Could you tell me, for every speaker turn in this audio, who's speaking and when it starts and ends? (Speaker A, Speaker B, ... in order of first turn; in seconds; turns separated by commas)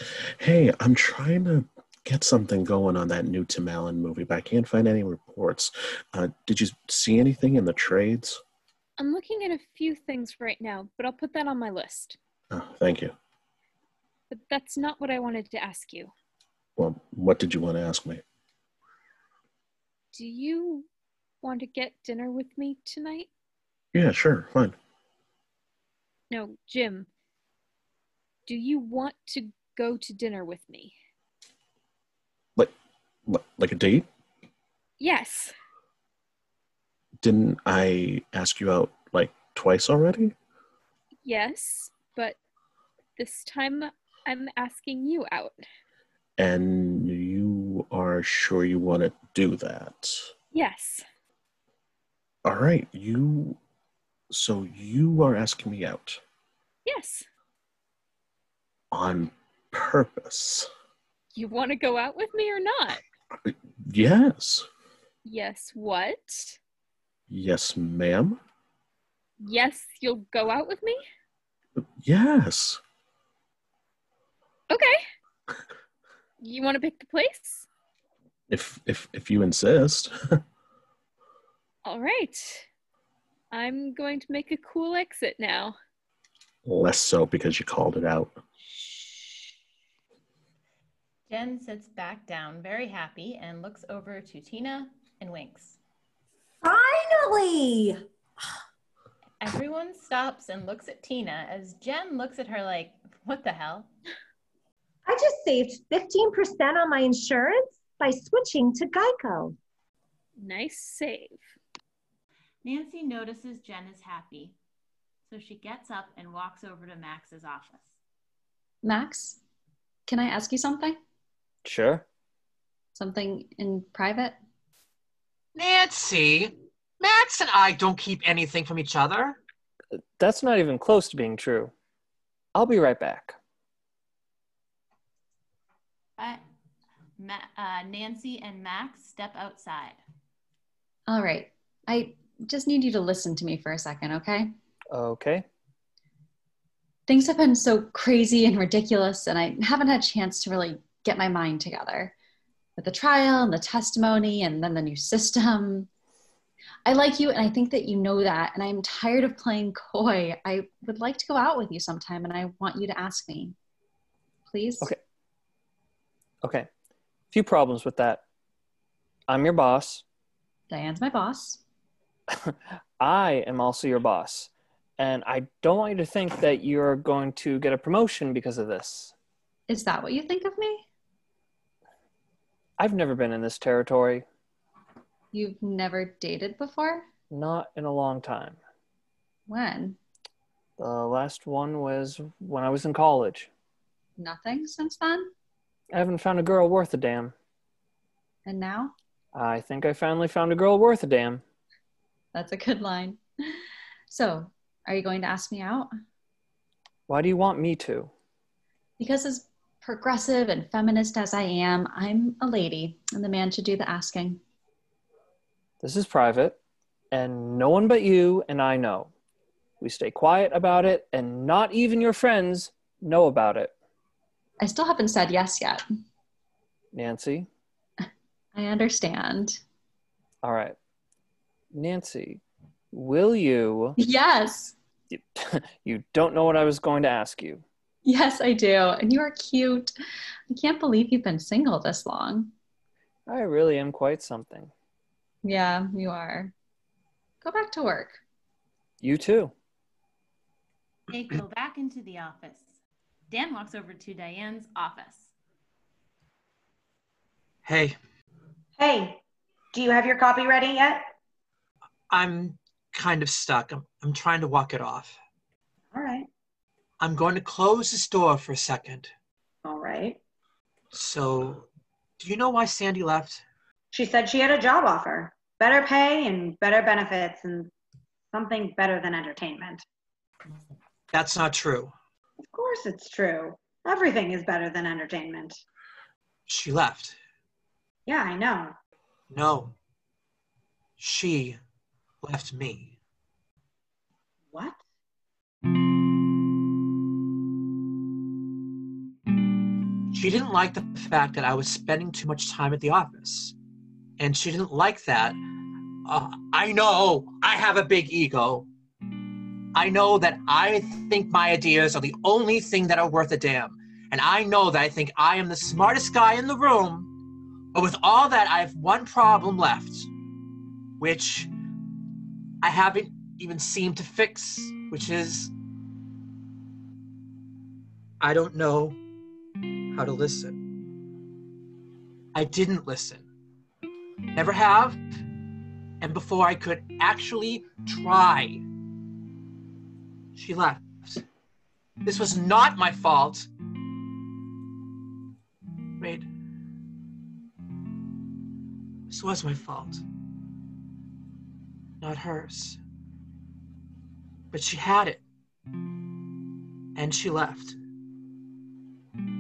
Speaker A: 0.4-8.4, Speaker B: 9.0-12.2, Speaker A: 12.5-13.1, Speaker B: 14.3-16.1, Speaker A: 16.8-18.2, Speaker B: 20.1-20.9, Speaker B: 21.4-23.3, Speaker A: 23.9-24.8, Speaker B: 26.3-27.1, Speaker B: 28.5-31.0, Speaker A: 33.3-34.1, Speaker B: 35.0-35.5, Speaker A: 37.2-40.3, Speaker B: 41.2-42.4, Speaker B: 43.2-45.6, Speaker A: 46.4-50.3, Speaker B: 50.5-51.0, Speaker A: 52.5-53.6, Speaker A: 54.3-56.2, Speaker B: 56.9-57.3, Speaker A: 58.9-60.7, Speaker B: 61.4-63.0, Speaker A: 63.5-64.7, Speaker B: 65.2-66.6, Speaker A: 67.3-68.4, Speaker B: 69.4-71.0, Speaker A: 72.0-72.8, Speaker B: 74.7-75.0, Speaker B: 76.4-77.7, Speaker A: 78.5-80.4, Speaker B: 81.8-82.7, Speaker B: 83.5-85.8, Speaker A: 86.7-88.4, Speaker C: 91.3-95.8, Speaker D: 96.6-98.0, Speaker C: 99.4-103.9, Speaker D: 105.1-109.6, Speaker B: 110.4-111.4, Speaker C: 112.6-114.6, Speaker C: 115.3-118.0, Speaker E: 118.8-119.4, Speaker E: 120.1-121.0, Speaker F: 121.7-122.0, Speaker E: 122.9-124.4, Speaker G: 125.6-129.4, Speaker F: 130.2-131.7, Speaker F: 132.6-133.4, Speaker C: 136.2-136.4, Speaker C: 137.2-140.0, Speaker E: 141.1-144.5, Speaker F: 144.9-145.5, Speaker E: 147.1-152.1, Speaker E: 152.8-155.9, Speaker E: 156.8-163.6, Speaker E: 164.5-164.9, Speaker F: 166.4-166.7, Speaker F: 167.3-168.2, Speaker F: 169.3-170.0, Speaker E: 170.7-171.6, Speaker F: 172.5-179.1, Speaker E: 179.7-180.8, Speaker F: 182.8-184.3, Speaker E: 185.3-187.1, Speaker F: 187.3-188.6, Speaker E: 189.5-190.0, Speaker F: 190.8-193.5, Speaker E: 194.2-195.3, Speaker F: 195.9-197.3, Speaker E: 198.4-198.9, Speaker F: 199.3-201.4, Speaker E: 202.3-203.2, Speaker E: 204.1-205.9, Speaker F: 207.1-208.1, Speaker E: 209.0-214.4, Speaker F: 215.8-216.6, Speaker F: 217.1-219.1, Speaker F: 219.8-223.7, Speaker E: 224.6-225.8, Speaker F: 226.9-227.5, Speaker E: 228.5-229.6, Speaker F: 230.4-230.8, Speaker F: 231.7-234.0, Speaker E: 234.0-234.8, Speaker F: 235.1-237.6, Speaker E: 238.1-239.9, Speaker E: 240.5-242.5, Speaker F: 243.3-244.7, Speaker E: 245.4-246.5, Speaker E: 247.4-248.2, Speaker F: 249.0-249.5, Speaker C: 251.1-252.8, Speaker C: 253.3-255.3, Speaker G: 257.6-258.0, Speaker H: 258.8-259.2, Speaker H: 259.7-261.1, Speaker G: 262.1-265.2, Speaker H: 265.9-266.3, Speaker G: 267.0-269.1, Speaker H: 269.6-270.2, Speaker G: 270.9-271.7, Speaker G: 272.2-273.4, Speaker H: 273.9-277.7, Speaker H: 278.3-279.8, Speaker G: 281.1-281.9, Speaker H: 282.4-285.6, Speaker G: 286.5-287.2, Speaker H: 288.1-288.8, Speaker G: 289.3-289.7, Speaker G: 291.0-291.6, Speaker G: 292.2-292.9, Speaker H: 294.5-294.8, Speaker G: 300.1-303.6, Speaker G: 304.2-305.4, Speaker G: 306.1-308.7, Speaker G: 309.7-317.1, Speaker G: 317.7-320.1, Speaker G: 321.0-321.5, Speaker G: 322.6-325.5, Speaker G: 328.2-329.0, Speaker G: 329.9-330.6, Speaker G: 332.3-333.3, Speaker G: 334.3-335.0, Speaker G: 336.0-338.6, Speaker G: 340.4-341.2, Speaker G: 342.0-343.5, Speaker G: 346.0-346.3, Speaker G: 349.1-350.0, Speaker G: 352.0-352.8, Speaker G: 354.5-355.2, Speaker G: 356.9-357.8